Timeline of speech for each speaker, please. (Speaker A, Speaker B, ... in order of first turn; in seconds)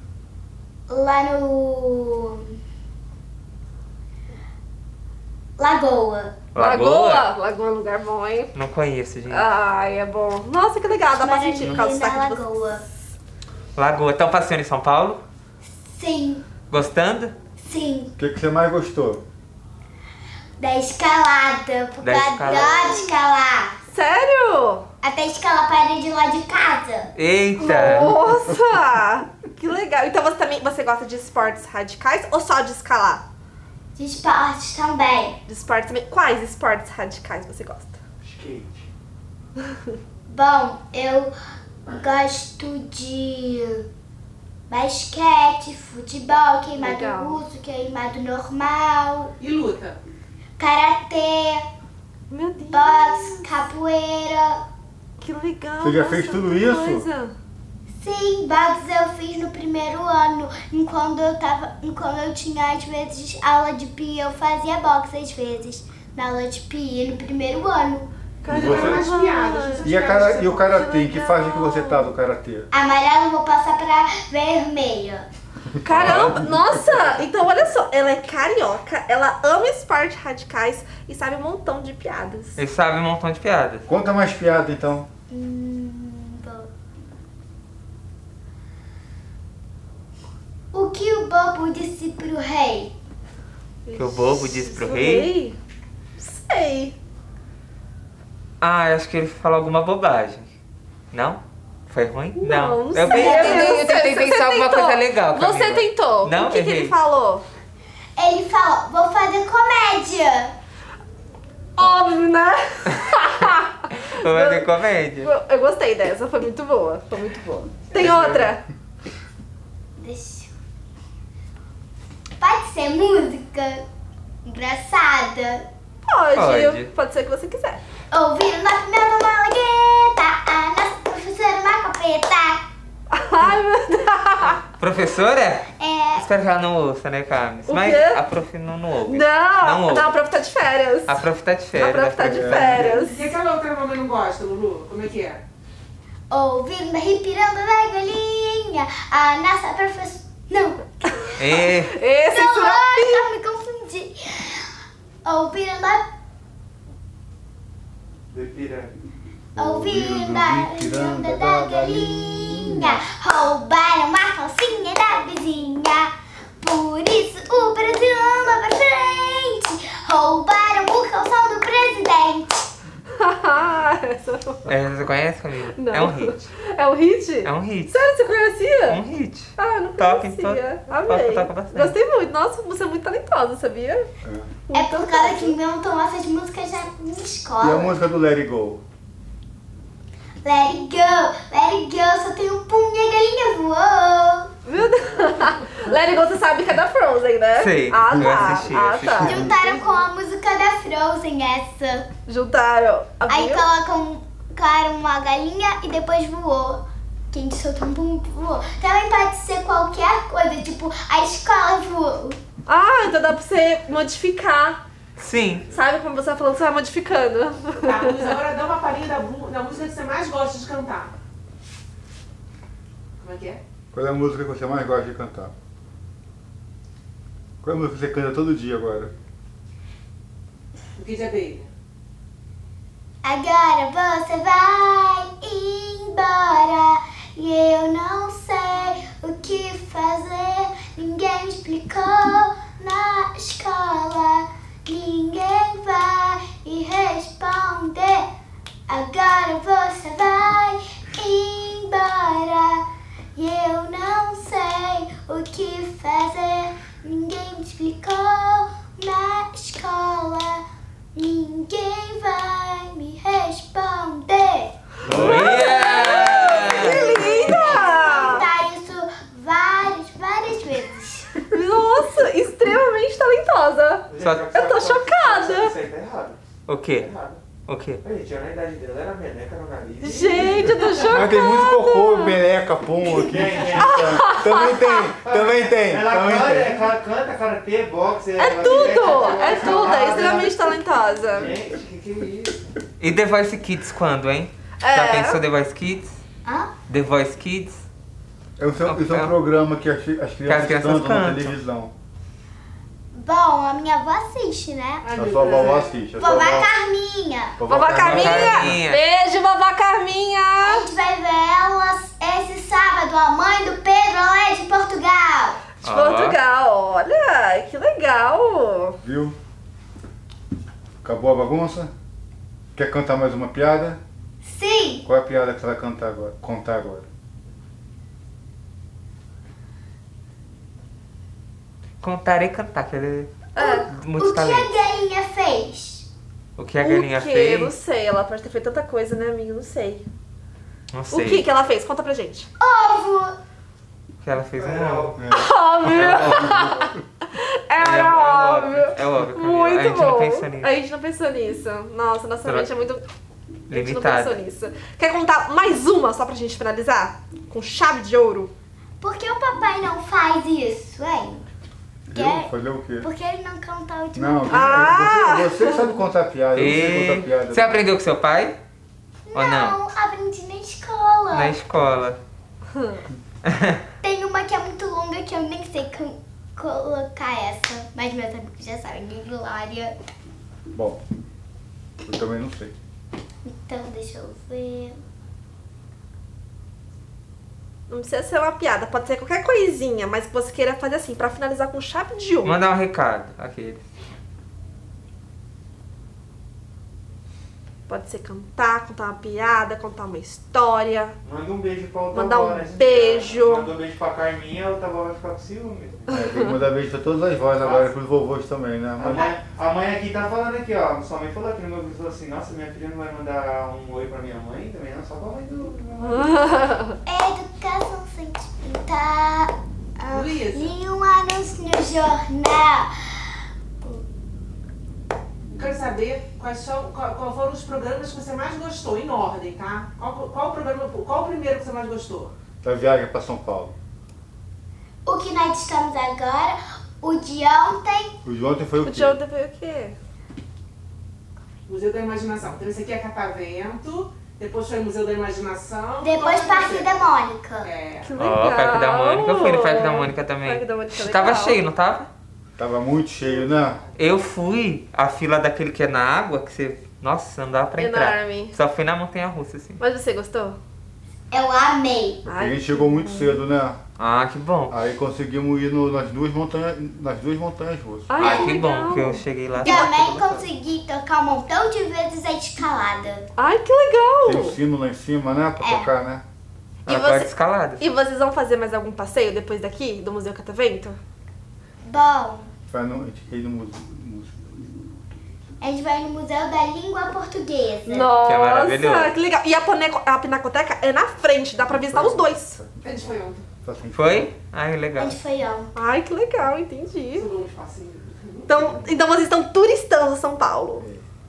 Speaker A: 0.9-2.5, 5.6-6.3, 11.1-12.8, 15.8-16.4, 17.6-18.1, 20.6-23.8, 25.0-27.1, 34.0-35.4, 40.3-41.3, 41.9-43.8, 44.7-49.3, 50.6-51.6, 52.7-54.6, 58.0-68.1, 72.7-75.2, 85.3-86.7, 90.7-92.9, 103.1-103.9, 108.2-110.5, 120.0-120.5, 122.4-123.8, 124.4-125.6, 128.1-132.6, 135.8-136.3, 146.3-151.3, 152.3-154.7, 155.2-156.0, 159.6-166.1, 166.6-172.6, 184.7-187.9, 190.4-194.5, 199.2-202.1, 203.3-212.4, 233.2-248.3, 248.9-252.8, 253.3-260.6, 261.1-271.3, 296.4-296.7, 303.1-305.6, 306.2-307.6, 310.6-315.6, 324.4-325.0, 333.6-336.1, 342.6-343.3, 359.0-361.4, 362.1-364.9, 369.3-371.6, 374.0-379.9, 383.4-385.0, 417.0-422.9, 435.1-438.1, 446.0-447.7, 461.3-462.2, 468.2-468.6, 469.6-473.3, 475.6-475.9, 481.8-482.5, 485.6-488.1, 495.0-495.7
Speaker B: 6.5-7.3, 8.5-9.5, 13.8-15.2, 16.7-17.3, 22.0-23.0, 27.1-28.1, 75.9-76.4, 82.6-83.8, 94.0-95.3, 98.6-100.5, 101.1-107.0, 113.9-115.3, 118.0-118.2, 126.3-126.9, 134.8-140.2, 141.1-142.9, 151.4-151.9, 174.7-176.5, 177.4-178.1, 178.9-181.9, 197.6-199.6, 215.2-215.7, 265.0-267.4, 274.2-274.6, 276.7-278.0, 293.0-296.1, 296.9-297.8, 298.8-299.3, 300.4-301.6, 308.0-309.0, 315.8-316.4, 332.0-334.7, 336.6-337.7, 340.9-341.4, 344.2-345.1, 345.8-346.7, 347.8-350.7, 352.4-352.7, 353.7-354.4, 366.5-368.6, 369.3-369.8, 371.3-372.2, 373.4-373.8, 392.4-393.8, 448.2-452.1, 453.9-459.8, 464.0-464.7, 468.2-470.4, 476.9-477.8, 488.2-489.1, 493.9-495.2
Speaker C: 6.5-8.5, 9.3-12.5, 23.9-24.9, 27.6-33.2, 35.5-38.0, 46.8-47.4, 52.3-53.5, 55.2-57.3, 68.4-69.9, 70.8-72.1, 75.8-82.6, 93.8-95.6, 96.2-97.0, 102.4-107.4, 111.8-118.6, 126.1-127.8, 133.1-134.6, 137.7-138.2, 139.1-141.2, 141.8-143.3, 151.6-153.2, 173.2-174.6, 175.7-179.0, 179.6-184.1, 184.7-185.6, 194.7-200.0, 202.3-203.6, 212.7-214.8, 215.7-218.3, 265.4-268.5, 271.5-275.7, 280.0-282.4, 283.8-285.1, 288.4-291.5, 294.8-295.4, 307.7-310.9, 315.8-319.0, 333.5-333.9, 336.8-340.0, 341.1-342.5, 345.3-353.0, 353.7-358.5, 364.5-365.8, 387.9-392.6, 397.9-401.1, 402.1-403.7, 406.1-406.6, 416.0-417.0, 438.8-439.9, 448.0-451.6, 457.8-458.6, 459.8-460.6, 462.3-463.4, 468.1-470.0, 473.4-474.6, 476.9-481.0, 487.9-492.6, 495.7-497.3, 498.5-500.8
Speaker D: 18.2-19.2, 27.8-28.6, 55.8-57.1, 68.5-69.1, 69.8-72.7, 76.0-76.6, 83.9-85.1, 118.0-118.4, 142.3-143.0, 159.6-163.0, 184.2-184.5, 187.6-188.8, 198.1-198.7, 199.2-199.5, 223.9-225.5, 227.6-229.1, 281.0-286.8, 298.6-301.9, 305.1-306.7, 307.6-308.8, 319.0-319.4, 321.0-321.9, 322.7-324.0, 325.0-327.1, 345.1-347.0, 362.1-363.1, 364.1-367.8, 380.7-381.0, 382.0-382.7, 406.1-409.2, 432.6-433.7, 438.2-439.2, 452.6-453.8, 462.2-463.8, 464.7-468.1, 474.2-476.2, 482.7-484.5, 491.6-494.3, 500.8-501.0
Speaker E: 38.2-38.8, 158.3-158.9, 265.1-268.3, 274.1-276.4, 276.9-277.4, 278.0-280.8, 283.3-290.6, 291.3-292.6, 344.5-345.1, 401.2-406.1, 407.6-407.9, 409.0-416.7
Speaker F: 49.4-50.0, 68.5-70.8, 143.0-145.4, 217.8-221.1, 223.2-223.6, 230.9-231.7, 289.1-289.4, 305.0-306.1, 420.1-420.7, 425.5-432.3, 441.7-446.9, 447.6-448.1, 453.2-453.9, 492.8-493.4, 497.1-498.8